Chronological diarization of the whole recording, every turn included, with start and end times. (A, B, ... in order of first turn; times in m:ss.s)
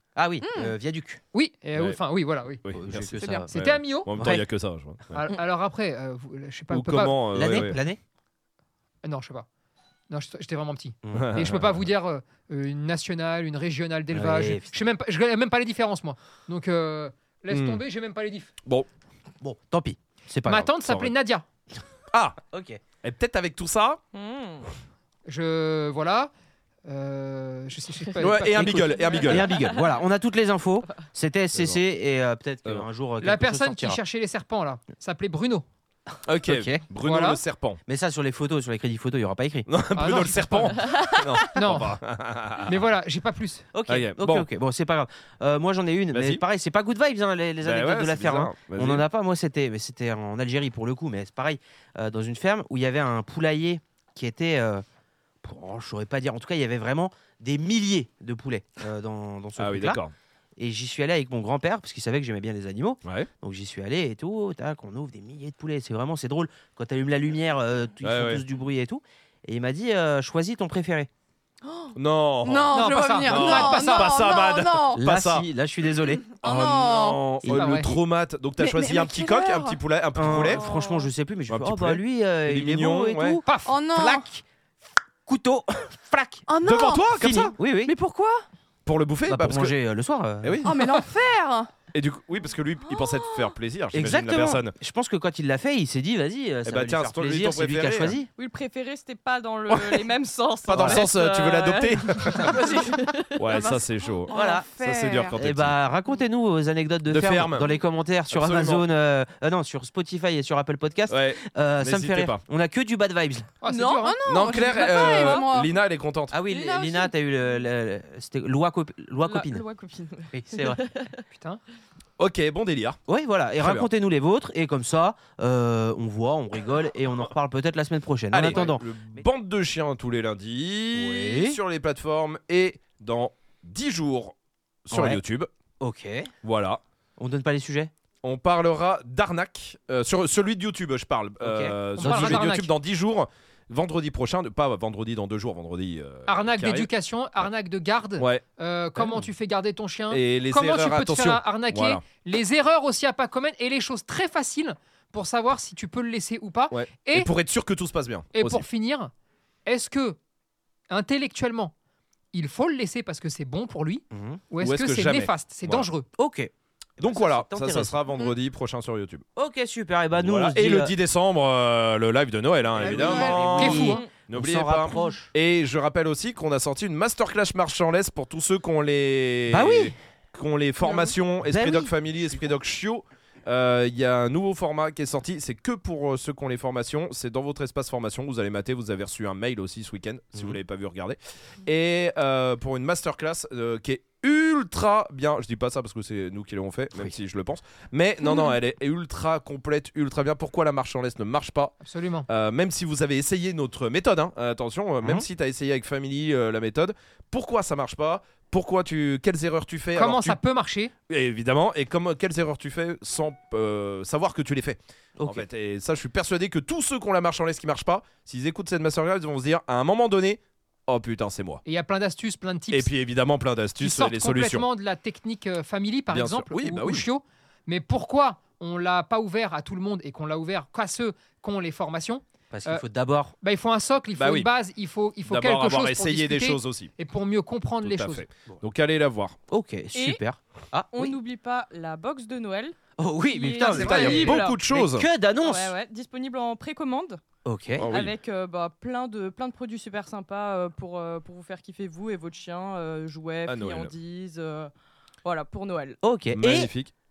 0:00.2-0:01.2 A
0:00.4-0:00.7 B
0:01.3-0:02.6 C
0:02.6-0:05.2 D
0:02.7-0:03.5 A
0:03.2-0:03.5 B
0:03.5-0:04.4 C
0:04.1-0:04.5 A
0:05.1-0:07.7 C
0:06.7-0:07.8 D
0:07.3-0:08.0 A
0:09.0-0:09.5 C
0:10.1-0:18.5 C
0:11.0-0:11.3 A
0:11.1-0:11.8 D
0:14.1-0:14.8 A
0:17.5-0:17.8 D
0:19.4-0:21.1 A
0:20.4-0:21.4 C
0:22.1-0:22.4 D
0:22.5-0:22.8 A
0:23.0-0:24.0 D
0:24.1-0:24.7 E
0:25.3-0:26.3 C
0:26.9-0:28.8 C
0:28.2-0:29.6 D
0:28.2-0:34.0 A
0:28.8-0:29.9 E
0:33.2-0:35.6 C
0:36.3-0:37.8 D
0:36.4-0:36.8 A
0:37.0-0:37.4 C
0:37.9-0:39.7 A
0:39.7-0:42.8 D
0:40.0-0:40.9 C
0:40.8-0:41.2 E
0:41.4-0:42.0 C
0:42.6-0:43.7 C
0:43.7-0:54.8 A
0:43.9-0:44.5 D
0:46.1-0:46.4 D
0:47.6-0:49.0 D
0:55.4-1:00.0 A
0:59.6-1:00.1 D
1:00.6-1:11.1 A
1:08.0-1:08.4 D
1:12.0-1:15.5 D
1:12.4-1:15.0 B
1:12.7-1:14.1 C
1:14.9-1:16.2 A
1:16.3-1:17.2 B
1:16.4-1:20.6 D
1:17.4-1:17.8 A
1:17.5-1:17.9 C
1:18.6-1:19.8 B
1:20.2-1:24.4 A
1:20.6-1:21.1 E
1:21.5-1:23.4 D
1:23.4-1:23.7 C
1:23.6-1:24.3 B
1:25.3-1:26.5 A
1:26.5-1:28.5 B
1:26.6-1:27.5 D
1:27.1-1:27.9 A
1:28.8-1:29.8 D
1:29.3-1:30.7 A
1:30.4-1:30.7 D
1:30.6-1:31.7 B
1:31.9-1:34.7 D
1:33.9-1:38.3 A
1:36.6-1:38.2 D
1:38.4-1:43.7 E
1:39.7-1:40.0 D
1:40.7-1:42.6 D
1:40.7-1:41.0 A
1:42.4-1:43.0 B
1:43.4-1:45.8 D
1:43.5-1:45.4 B
1:44.3-1:44.7 A
1:45.4-1:53.5 A
1:47.1-1:47.7 D
1:48.3-1:48.8 D
1:51.1-1:52.4 D
1:53.6-1:55.0 C
1:53.7-1:55.7 B
1:54.2-1:56.4 D
1:54.9-1:55.4 E
1:56.3-1:59.6 A
1:56.5-1:57.0 B
1:59.2-2:01.2 E
2:00.3-2:00.8 A
2:01.3-2:01.6 C
2:02.2-2:03.0 D
2:03.1-2:09.3 A
2:03.6-2:03.9 D
2:08.3-2:14.4 D
2:10.9-2:11.6 A
2:14.9-2:15.5 D
2:14.9-2:15.2 A
2:15.8-2:16.3 A
2:16.4-2:16.8 D
2:17.2-2:17.9 A
2:18.2-2:26.9 D
2:21.4-2:22.7 A
2:22.0-2:22.7 C
2:26.3-2:37.3 C
2:30.1-2:32.0 D
2:36.7-2:38.6 D
2:38.3-2:39.1 C
2:39.7-2:40.2 C
2:40.9-2:41.7 C
2:42.3-2:46.1 C
2:44.1-2:44.4 A
2:44.6-2:45.9 D
2:46.2-2:48.0 A
2:47.0-2:49.2 D
2:49.4-2:51.0 A
2:50.2-3:21.8 D
2:52.8-2:53.8 B
2:52.8-2:55.3 A
2:53.6-2:54.0 C
2:53.7-2:54.1 E
2:59.5-3:00.0 A
3:00.8-3:02.6 A
3:21.8-3:22.3 C
3:22.3-3:30.4 D
3:30.0-3:30.9 C
3:31.1-3:41.6 D
3:35.2-3:35.5 A
3:41.6-3:42.9 C
3:42.7-3:44.7 D
3:43.8-3:52.8 C
3:46.1-3:47.1 D
3:52.5-3:53.3 A
3:53.4-3:58.3 C
3:54.2-3:54.5 D
3:55.3-3:56.9 D
3:57.8-3:59.4 D
3:59.5-4:01.2 A
3:59.9-4:00.2 E
4:00.9-4:04.6 E
4:03.0-4:05.7 A
4:03.7-4:05.1 D
4:03.8-4:04.2 C
4:05.4-4:07.2 E
4:07.4-4:07.9 A
4:07.8-4:08.1 D
4:07.8-4:14.7 E
4:13.5-4:13.9 D
4:15.2-4:16.0 E
4:16.0-4:16.7 A
4:16.3-4:16.9 D